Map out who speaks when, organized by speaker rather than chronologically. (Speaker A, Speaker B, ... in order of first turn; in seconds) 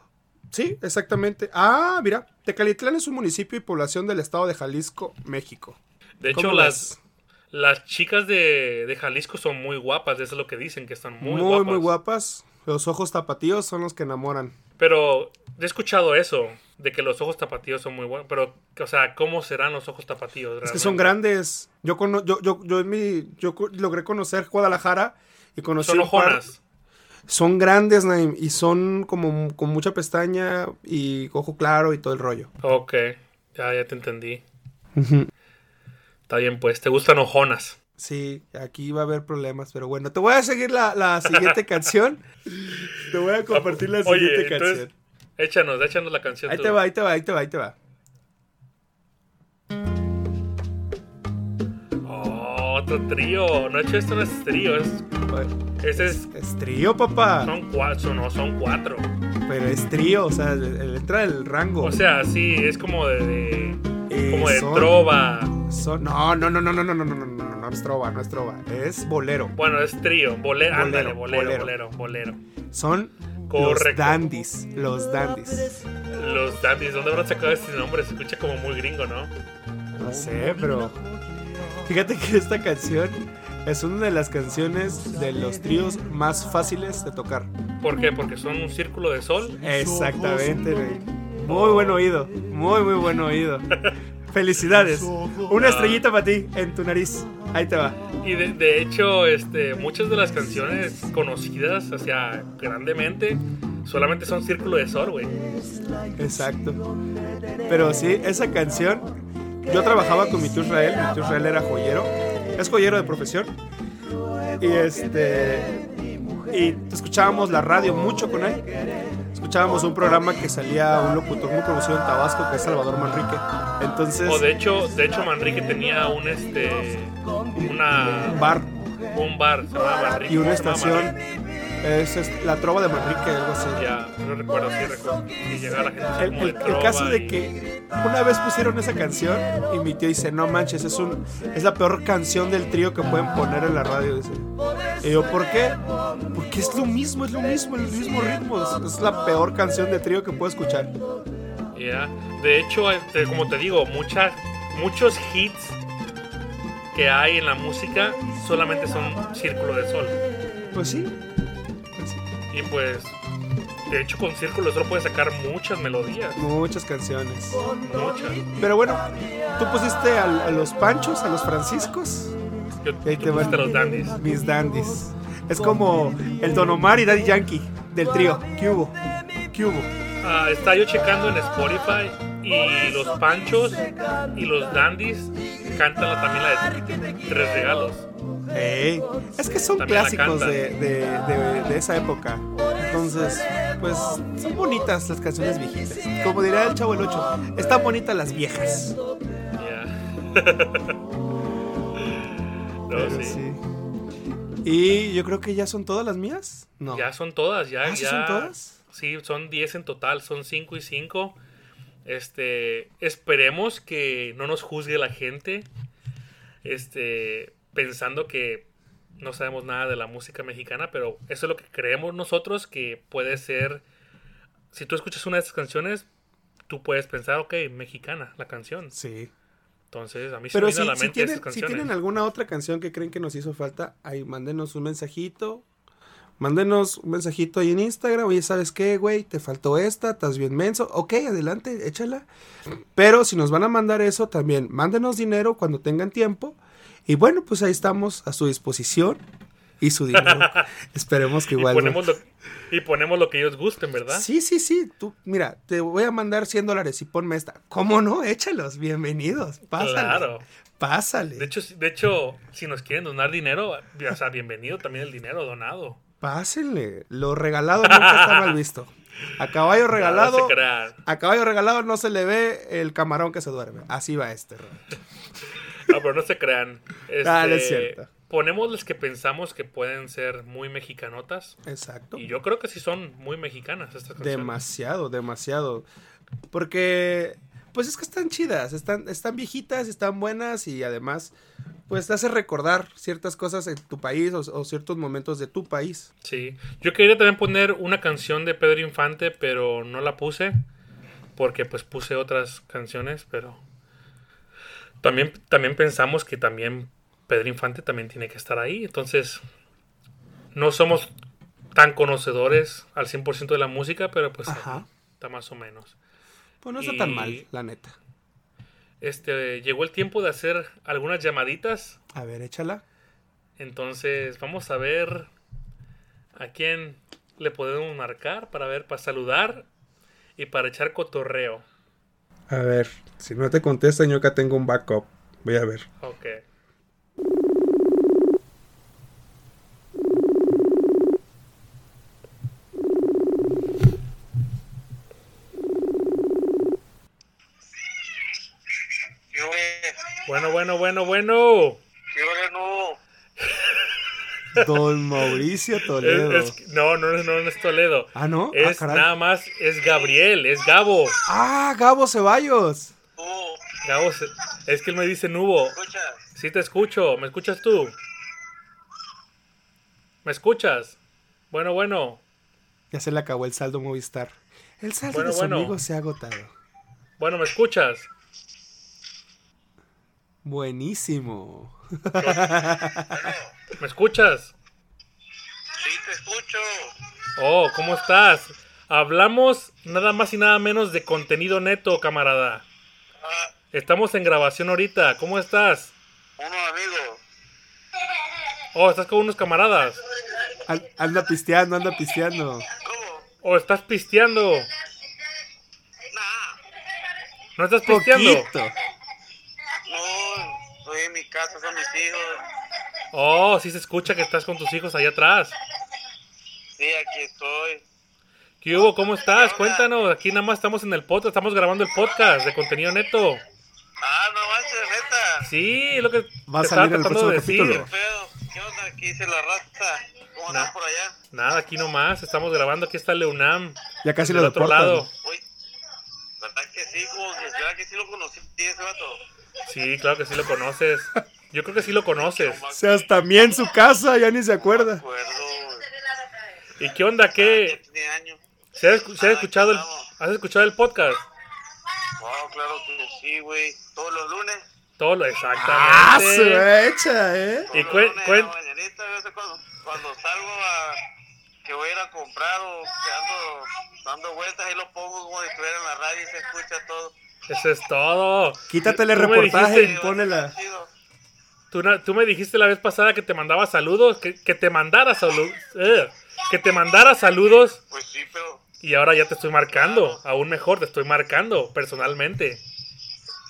Speaker A: 0.5-5.8, 6.3-7.0, 11.2-14.6, 20.6-26.4, 27.3-32.5, 35.0-35.3, 38.0-44.9, 46.5-47.8, 55.3-57.5, 59.5-62.0, 64.1-65.0, 65.6-69.5, 70.7-71.7, 72.7-75.8, 80.0-81.0, 81.8-87.5, 89.6-93.7, 94.3-98.0, 106.2-106.8, 107.7-109.1, 109.6-113.5, 114.6-115.8, 116.5-118.7, 119.3-124.5, 127.6-128.7, 130.3-131.2, 131.8-133.9, 136.2-144.5, 145.0-145.8, 146.3-150.9, 160.7-161.2, 162.0-162.2, 166.4-167.6, 168.6-169.1, 169.6-172.4, 173.0-179.0, 179.5-179.9, 188.5-199.0, 202.9-203.6, 204.6-207.1, 207.8-208.8, 228.9-229.3, 230.5-235.7, 236.4-242.3, 242.9-249.2, 249.8-252.1, 254.1-261.5, 266.2-274.9, 277.2-278.1, 281.6-282.3, 284.2-285.9, 286.5-291.3, 291.9-296.1, 314.5-314.9, 316.6-318.0, 322.1-322.8, 332.5-335.9, 354.6-356.6, 358.1-359.1, 361.3-362.9, 372.9-376.5, 380.4-383.3, 400.7-402.7, 407.9-408.8, 426.5-427.9, 434.0-435.1, 442.7-445.0, 455.6-457.7, 468.7-470.6
Speaker B: 6.2-6.9, 7.5-11.9, 14.8-21.2, 25.8-26.6, 32.6-34.4, 36.3-37.8, 41.3-41.6, 43.5-44.9, 45.4-46.8, 52.0-55.0, 55.8-56.3, 57.4-59.1, 61.8-65.6, 69.6-72.4, 73.5-74.2, 76.1-79.3, 87.8-89.6, 91.4-92.0, 95.5-96.0, 98.2-105.3, 124.3-128.4, 129.1-131.2, 133.8-137.4, 151.7-155.8, 156.9-160.2, 162.5-163.2, 163.9-166.5, 167.8-168.5, 172.8-174.2, 180.2-188.1, 189.8-190.6, 199.6-201.0, 202.0-202.3, 202.9-203.4, 206.9-211.4, 212.1-215.7, 216.6-218.7, 219.2-223.8, 224.7-226.1, 226.7-228.9, 229.9-231.9, 250.1-250.7, 251.5-254.3, 259.7-260.4, 261.4-266.0, 267.8-268.6, 270.0-271.0, 275.8-281.6, 282.1-284.6, 296.2-300.6, 301.4-303.6, 305.0-309.4, 310.5-311.1, 311.7-316.0, 316.8-317.5, 319.0-322.0, 323.6-325.3, 326.4-329.7, 330.4-331.6, 336.0-336.4, 350.3-351.8, 356.0-361.2, 363.8-365.8, 366.4-368.0, 370.2-371.0, 371.5-372.2, 375.1-375.8, 377.2-378.1, 382.2-382.5, 383.8-384.5, 387.4-392.7, 393.7-395.9, 398.7-400.0, 403.4-404.7, 407.6-408.5, 413.1-415.6, 418.6-423.4, 425.4-427.9, 431.3-435.1, 439.7-442.6, 446.8-447.8, 448.8-451.2, 455.0-456.7, 457.7-458.5, 467.5-469.9, 471.7-477.8, 478.8-482.6
Speaker C: 349.3-350.1, 352.1-353.0, 359.9-360.1, 363.2-363.7, 365.8-366.2, 383.1-383.5, 385.8-386.9, 393.2-393.5, 396.4-397.2, 402.7-403.3, 406.1-406.6, 409.9-412.4, 416.8-417.8, 418.7-419.9, 424.0-425.4, 427.8-431.2, 435.1-435.4, 436.4-439.2, 442.1-443.1, 444.7-445.9, 447.4-448.4, 449.2-450.1, 452.2-454.6, 457.7-461.0, 461.6-467.1, 469.6-470.9, 477.9-478.6, 479.7-480.2